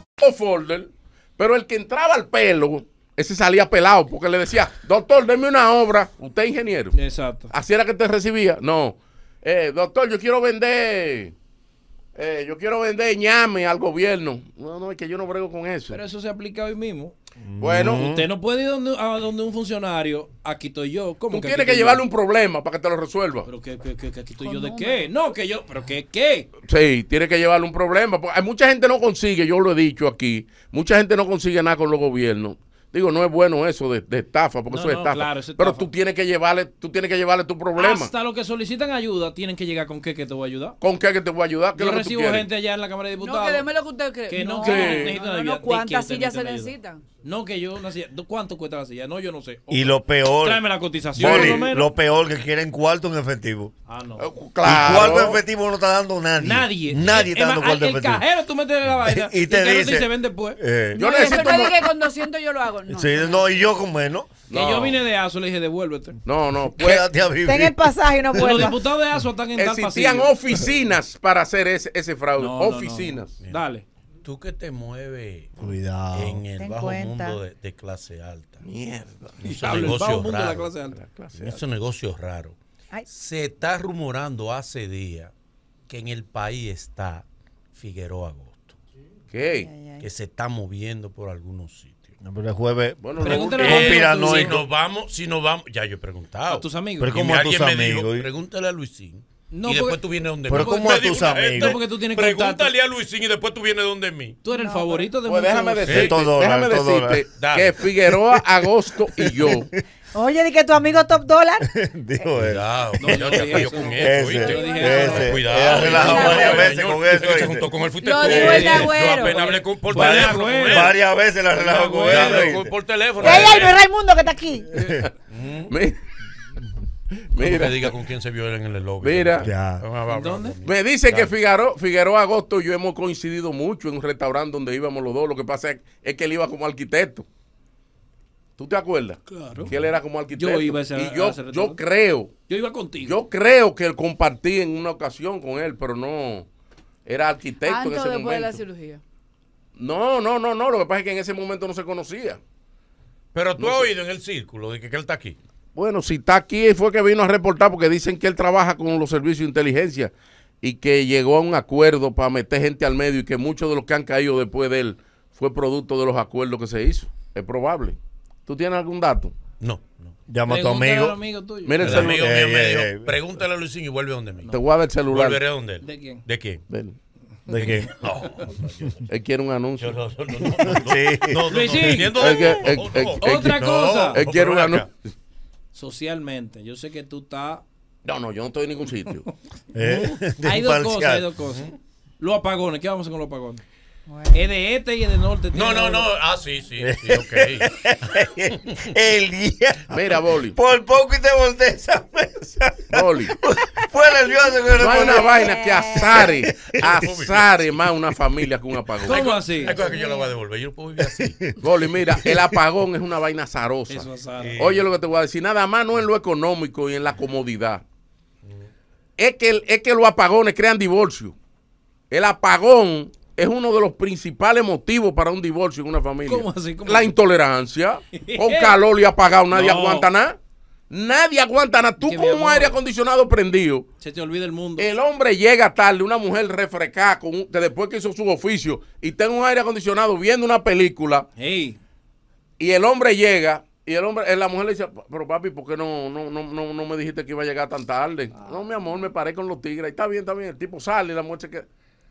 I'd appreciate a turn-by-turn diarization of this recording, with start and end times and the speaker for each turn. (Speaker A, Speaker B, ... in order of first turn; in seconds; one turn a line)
Speaker A: 0.2-7.0
Speaker B: 6.9-7.5
Speaker A: 7.5-11.3
Speaker A: 12.2-16.0
Speaker B: 15.9-17.1
Speaker C: 17.4-18.3
Speaker A: 17.6-18.1
Speaker B: 17.9-22.0
Speaker A: 21.3-23.5
Speaker B: 23.5-26.5
Speaker D: 24.4-25.1
Speaker A: 26.7-38.1
Speaker B: 34.7-35.9
Speaker B: 37.8-40.8
Speaker A: 40.8-42.5
Speaker B: 41.8-43.7
Speaker D: 43.1-47.0
Speaker B: 44.3-51.9
Speaker A: 44.6-45.2
Speaker C: 49.7-53.7
Speaker A: 51.2-51.7
Speaker B: 53.9-54.3
Speaker A: 54.2-55.4
Speaker C: 54.6-58.2
Speaker B: 56.4-60.6
Speaker C: 58.9-61.4
Speaker D: 60.9-63.6
Speaker A: 61.0-61.9
Speaker C: 62.9-64.3
Speaker A: 64.5-65.0
Speaker B: 64.5-66.2
Speaker A: 66.2-67.1
Speaker C: 66.8-67.8
Speaker E: 67.4-68.8
Speaker B: 68.3-70.3
Speaker A: 69.5-73.4
Speaker B: 72.4-73.8
Speaker F: 74.2-78.6
Speaker C: 75.6-76.4
Speaker E: 76.6-77.4
Speaker A: 78.6-80.0
Speaker F: 79.4-80.7
Speaker B: 79.4-81.0
Speaker A: 80.9-81.6
Speaker F: 81.4-85.3
Speaker F: 85.9-88.8
Speaker A: 89.3-89.7
Speaker E: 89.6-90.1
Speaker F: 90.0-92.2
Speaker C: 92.2-94.7
Speaker A: 93.0-94.0
Speaker B: 93.2-94.6
Speaker F: 93.3-104.4
Speaker B: 96.5-97.2
Speaker C: 97.0-98.3
Speaker B: 99.5-100.0
Speaker C: 100.5-101.8
Speaker B: 100.5-102.7
Speaker B: 104.4-106.1
Speaker E: 104.5-105.1
Speaker A: 105.2-109.7
Speaker F: 105.8-106.2
Speaker C: 105.9-107.2
Speaker F: 107.4-107.8
Speaker C: 108.1-108.4
Speaker C: 109.2-109.6
Speaker E: 110.1-111.7
Speaker C: 111.7-117.7
Speaker F: 112.4-121.0
Speaker B: 113.0-116.3
Speaker D: 114.6-116.8
Speaker D: 118.0-119.6
Speaker B: 118.2-121.0
Speaker C: 118.2-118.7
Speaker C: 119.9-122.7
Speaker B: 121.5-122.6
Speaker F: 121.9-123.8
Speaker E: 123.2-124.9
Speaker F: 125.3-125.7
Speaker A: 125.7-126.0
Speaker A: 127.3-127.9
Speaker F: 127.4-131.3
Speaker A: 129.0-129.5
Speaker C: 129.4-129.8
Speaker B: 130.1-130.6
Speaker A: 130.7-137.3
Speaker A: 138.6-142.3
Speaker B: 139.3-139.7
Speaker B: 140.3-141.8
Speaker B: 142.5-143.2
Speaker A: 143.0-146.5
Speaker A: 147.1-148.6
Speaker D: 147.6-149.0
Speaker A: 149.8-152.4
Speaker F: 153.3-155.4
Speaker A: 153.6-153.9
Speaker A: 155.8-169.3
Speaker F: 169.6-170.1
Speaker C: 170.3-171.2
Speaker B: 170.5-172.1
Speaker A: 171.7-172.3
Speaker F: 171.8-174.5
Speaker C: 171.8-173.2
Speaker A: 174.5-175.4
Speaker F: 175.1-176.6
Speaker B: 175.8-176.2
Speaker A: 176.7-177.0
Speaker C: 177.5-178.0
Speaker F: 177.5-179.1
Speaker A: 179.1-180.0
Speaker F: 179.8-184.9
Speaker C: 180.6-181.6
Speaker B: 181.5-182.4
Speaker A: 182.1-183.6
Speaker B: 183.2-184.2
Speaker A: 184.1-184.9
Speaker B: 185.7-187.6
Speaker A: 188.1-189.3
Speaker C: 189.7-191.3
Speaker B: 190.4-193.6
Speaker E: 194.1-194.5
Speaker B: 194.3-196.1
Speaker F: 195.5-197.7
Speaker C: 196.8-205.5
Speaker A: 199.9-200.6
Speaker A: 202.9-203.4
Speaker A: 204.8-209.3
Speaker E: 204.9-206.3
Speaker C: 206.1-206.8
Speaker F: 206.8-207.7
Speaker F: 209.0-211.4
Speaker B: 209.1-209.8
Speaker E: 209.8-210.3
Speaker C: 211.0-212.6
Speaker A: 211.6-217.8
Speaker B: 213.9-214.7
Speaker F: 214.4-214.8
Speaker A: 219.2-221.3
Speaker A: 222.1-230.4
Speaker B: 226.3-227.2
Speaker B: 228.1-228.8
Speaker B: 229.5-230.1
Speaker A: 230.9-233.9
Speaker B: 232.0-232.8
Speaker B: 234.0-234.9
Speaker A: 234.8-241.3
Speaker B: 241.4-241.8
Speaker A: 242.6-251.7